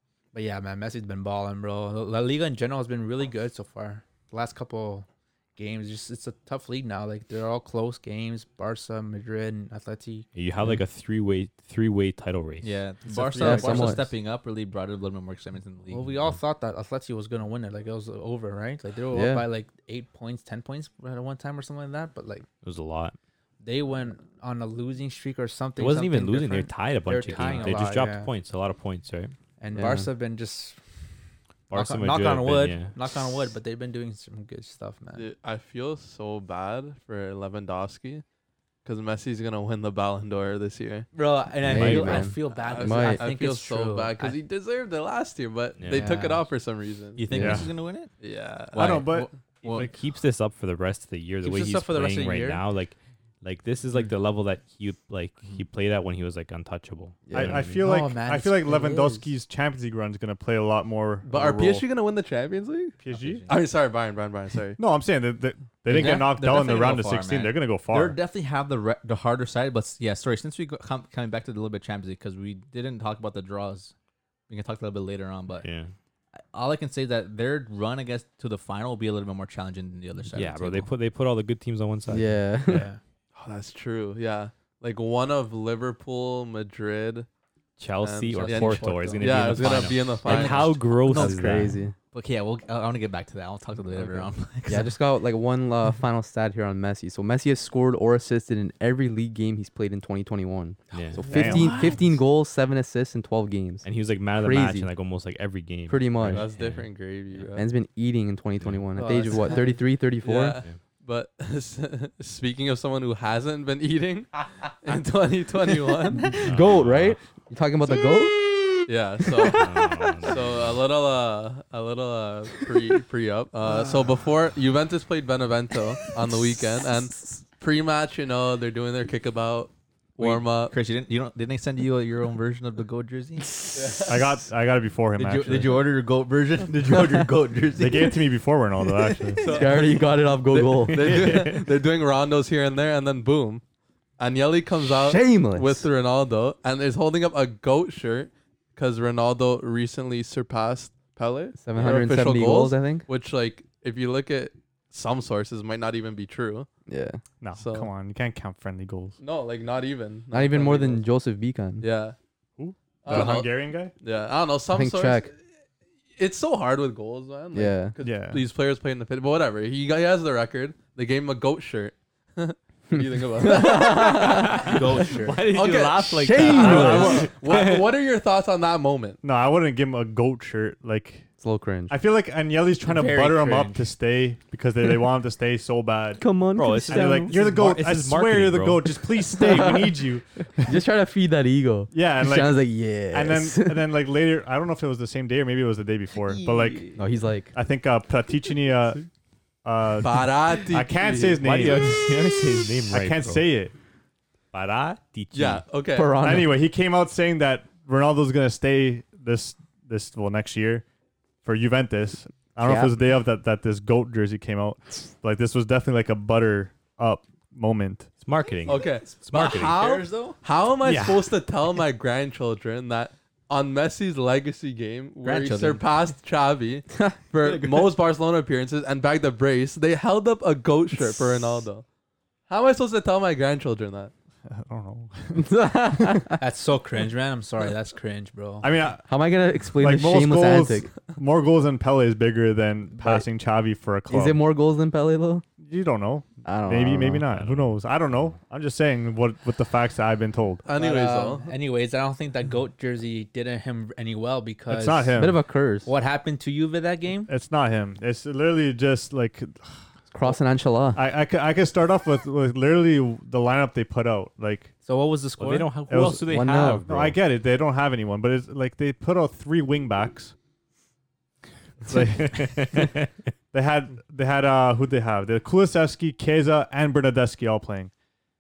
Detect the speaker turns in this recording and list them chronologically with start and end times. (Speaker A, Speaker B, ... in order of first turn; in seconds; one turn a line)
Speaker A: 0.3-10.3
Speaker B: 10.3-12.8
Speaker C: 12.6-16.1
Speaker D: 13.4-14.0
Speaker A: 13.5-13.9
Speaker A: 15.9-22.5
Speaker D: 19.1-19.5
Speaker B: 22.6-23.2
Speaker A: 23.6-28.3
Speaker B: 25.8-29.3
Speaker C: 27.3-27.7
Speaker A: 29.6-30.8
Speaker D: 29.7-30.1
Speaker B: 31.7-33.0
Speaker A: 31.7-35.2
Speaker E: 35.1-38.2
Speaker E: 38.9-41.1
Speaker A: 41.1-44.4
Speaker D: 41.6-43.2
Speaker B: 41.7-42.3
Speaker E: 42.5-47.2
Speaker B: 45.8-46.2
Speaker A: 45.9-46.5
Speaker C: 47.2-48.1
Speaker F: 47.3-47.7
Speaker D: 47.4-47.6
Speaker E: 48.2-49.1
Speaker C: 48.7-49.9
Speaker F: 48.8-49.9
Speaker B: 49.6-57.8
Speaker A: 51.4-52.6
Speaker D: 57.3-57.7
Speaker F: 57.3-61.9
Speaker A: 57.8-59.3
Speaker E: 61.2-63.0
Speaker F: 63.0-63.5
Speaker C: 63.1-63.6
Speaker E: 63.5-64.8
Speaker F: 64.8-68.2
Speaker C: 65.9-73.9
Speaker A: 66.0-66.3
Speaker C: 74.5-75.7
Speaker B: 75.6-75.9
Speaker C: 76.5-80.9
Speaker B: 80.3-82.4
Speaker D: 82.1-82.9
Speaker A: 82.7-83.0
Speaker E: 83.3-87.3
Speaker B: 87.8-91.8
Speaker E: 88.0-90.8
Speaker A: 88.5-89.4
Speaker C: 88.5-88.9
Speaker C: 89.6-95.0
Speaker D: 91.1-92.0
Speaker E: 93.9-94.3
Speaker D: 94.7-104.9
Speaker B: 100.9-101.2
Speaker A: 101.2-102.0
Speaker F: 101.3-101.9
Speaker B: 103.8-106.9
Speaker D: 105.9-106.5
Speaker E: 106.3-107.7
Speaker D: 107.5-110.6
Speaker B: 108.6-108.9
Speaker A: 109.0-109.8
Speaker E: 110.2-116.4
Speaker D: 116.2-118.4
Speaker B: 116.4-117.2
Speaker E: 118.9-130.7
Speaker B: 119.5-120.8
Speaker C: 130.2-133.6
Speaker E: 133.8-134.1
Speaker F: 134.1-135.9
Speaker C: 135.2-138.2
Speaker F: 137.8-139.5
Speaker D: 139.4-141.3
Speaker E: 139.4-143.6
Speaker E: 144.2-156.7
Speaker D: 144.8-145.9
Speaker D: 151.6-153.1
Speaker D: 156.9-157.2
Speaker F: 157.4-159.2
Speaker E: 157.5-157.9
Speaker E: 159.2-161.0
Speaker D: 160.3-161.9
Speaker E: 161.8-162.2
Speaker F: 162.6-163.9
Speaker E: 163.0-165.4
Speaker D: 164.7-165.3
Speaker E: 166.2-174.8
Speaker D: 167.5-167.9
Speaker F: 168.0-168.5
Speaker D: 172.9-174.8
Speaker B: 174.6-177.9
Speaker A: 174.6-175.6
Speaker E: 175.4-179.2
Speaker D: 176.2-177.3
Speaker F: 176.4-177.4
Speaker F: 179.2-181.3
Speaker D: 181.4-181.9
Speaker F: 181.9-186.2
Speaker A: 182.8-183.9
Speaker D: 186.2-187.4
Speaker B: 186.6-189.1
Speaker F: 186.8-190.8
Speaker D: 189.4-190.0
Speaker D: 190.6-193.9
Speaker F: 191.9-197.0
Speaker A: 196.3-197.0
Speaker D: 196.9-197.5
Speaker F: 197.5-199.1
Speaker F: 199.6-202.1
Speaker E: 200.0-201.7
Speaker B: 201.4-203.5
Speaker F: 202.9-203.7
Speaker B: 204.5-205.7
Speaker E: 205.3-206.2
Speaker D: 205.9-206.6
Speaker F: 206.2-210.8
Speaker F: 211.4-218.1
Speaker D: 212.6-212.9
Speaker B: 218.2-219.9
Speaker E: 218.7-231.8
Speaker C: 218.7-220.4
Speaker F: 220.8-221.3
Speaker C: 225.2-225.9
Speaker C: 227.4-227.8
Speaker E: 232.5-234.1
Speaker F: 234.5-236.3
Speaker D: 235.3-236.4
Speaker A: 236.4-238.7
Speaker F: 238.6-239.1
Speaker D: 239.1-240.9
Speaker F: 239.8-244.4
Speaker D: 243.0-243.2
Speaker D: 244.1-245.4
Speaker F: 245.6-250.7
Speaker D: 246.4-247.3
Speaker B: 247.3-248.4
Speaker E: 250.7-251.5
Speaker A: 250.7-255.2
Speaker F: 254.7-255.4
Speaker D: 255.2-255.9
Speaker A: 255.8-257.3
Speaker F: 257.3-259.6
Speaker D: 260.1-261.0
Speaker F: 260.9-264.7
Speaker A: 264.8-265.8
Speaker B: 265.4-267.2
Speaker F: 265.8-270.3
Speaker D: 266.3-266.9
Speaker F: 271.9-272.9
Speaker B: 272.2-273.1
Speaker F: 273.5-277.9